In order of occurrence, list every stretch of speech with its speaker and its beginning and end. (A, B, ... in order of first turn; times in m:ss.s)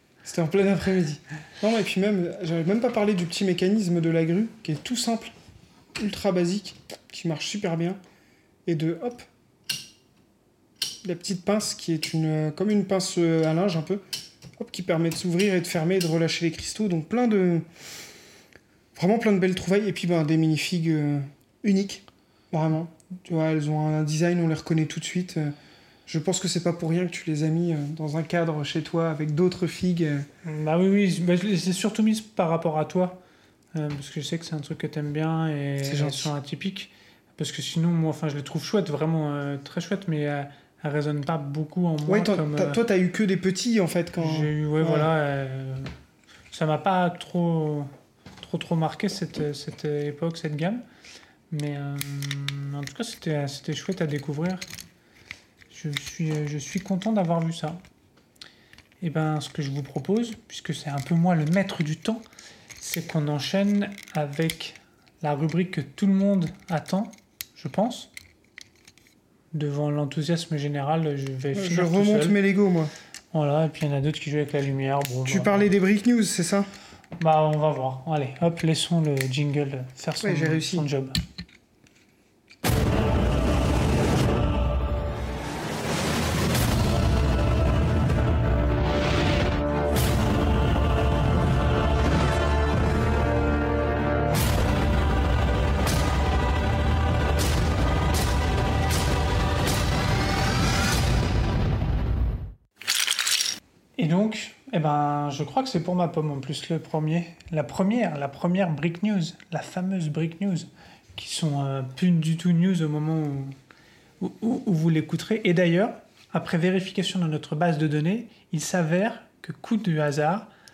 0:00.2-0:05.3 A
0:06.0-0:08.0 A
0:08.6-0:09.2 A
0:11.0-0:14.0 A
0:14.6-0:17.6 A
0:19.0-0:25.5 A
0:26.1-0:30.2 A
0:30.4-0:33.2 B
0:33.7-0:42.8 B
0:35.8-0:36.3 A
0:42.0-0:45.1 A
0:44.2-0:45.9 B
0:46.5-0:50.8 B
0:51.5-0:54.6 B
0:55.7-0:57.8 B
0:59.0-1:02.2 B
1:02.8-1:08.1 B
1:09.5-1:12.4 B
1:11.5-1:12.9 A
1:13.3-1:15.7 B
1:15.3-1:16.7 A
1:17.2-1:21.2 B
1:20.2-1:20.8 A
1:44.0-1:53.5 B
1:54.2-2:00.5 B